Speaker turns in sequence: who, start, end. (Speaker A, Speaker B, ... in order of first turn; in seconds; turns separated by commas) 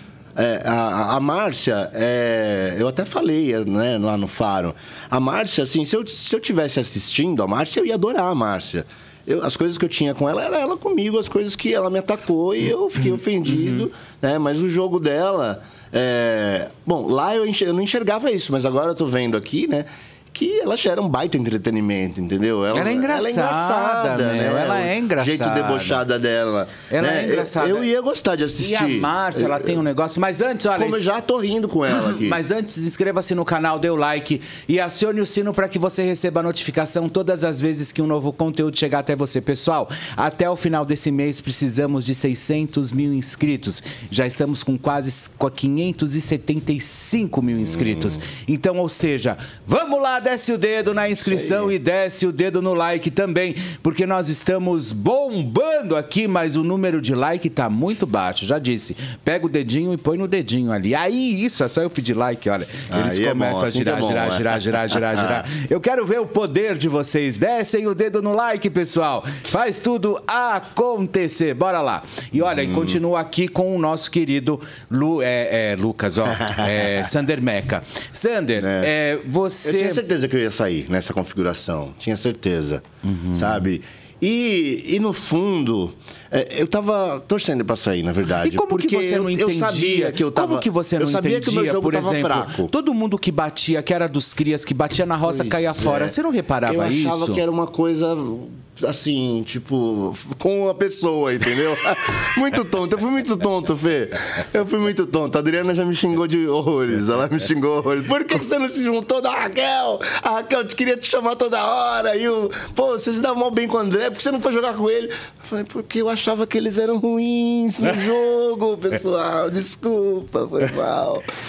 Speaker A: 0.3-29.8, Speaker B: 22.7-26.0, Speaker B: 26.9-27.9, Speaker B: 28.6-31.0, Speaker A: 30.7-32.4, Speaker B: 31.9-80.0, Speaker A: 51.2-51.7, Speaker A: 62.9-65.4, Speaker A: 72.4-73.0, Speaker A: 78.6-78.9, Speaker A: 79.6-92.7, Speaker B: 83.0-83.6, Speaker B: 88.3-97.4, Speaker A: 95.2-96.1, Speaker A: 96.7-121.2